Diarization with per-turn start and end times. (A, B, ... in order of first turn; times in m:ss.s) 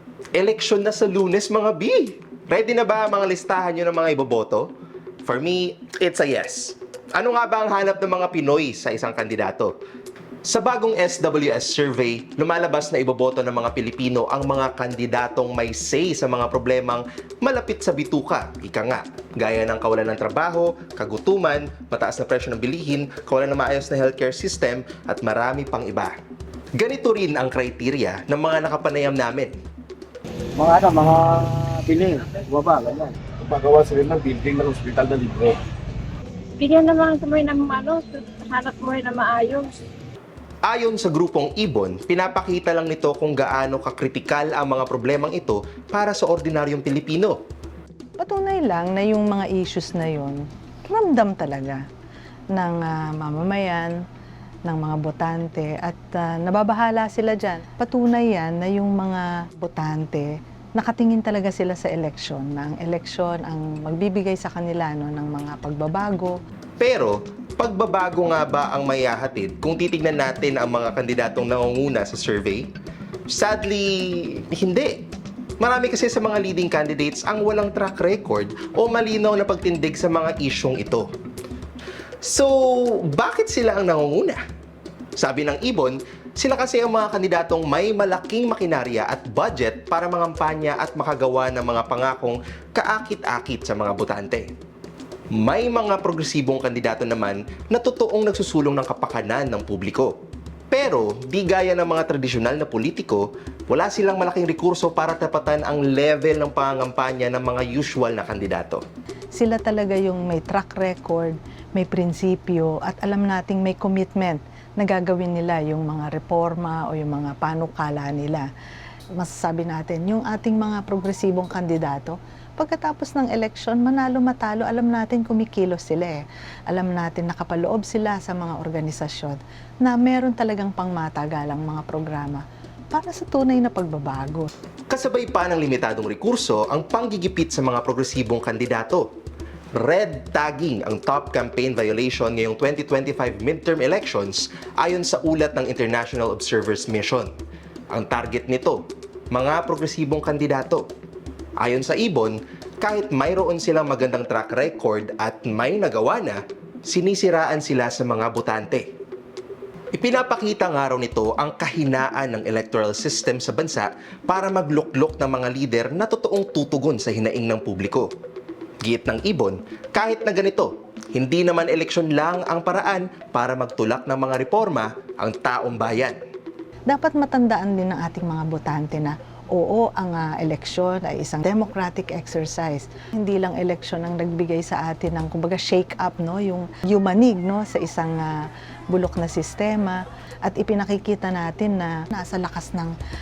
0:00.3-0:04.7 A
0:05.2-0:09.7 A
0:10.4-0:26.2 A
0:26.7-0:29.5 A
0:30.5-0:33.2 B
0:33.4-0:35.6 C
0:36.6-0:39.7 D
0:40.6-0:47.4 A
0:48.2-0:51.8 E
0:52.5-0:53.9 E
0:54.7-1:06.3 E
1:06.8-1:12.7 A
1:13.3-1:15.0 A
1:15.6-1:21.1 A
1:22.2-1:24.4 A
1:25.2-1:34.5 A
1:35.3-1:40.1 A
1:40.7-1:48.8 A
1:49.3-1:58.5 E
1:59.2-2:14.5 E
2:14.9-2:19.1 A
2:19.7-2:27.3 A
2:27.9-2:30.8 A
2:31.6-2:38.9 A
2:39.9-2:48.1 A
2:48.8-2:56.2 A
2:56.9-3:08.4 E
3:08.9-3:12.9 E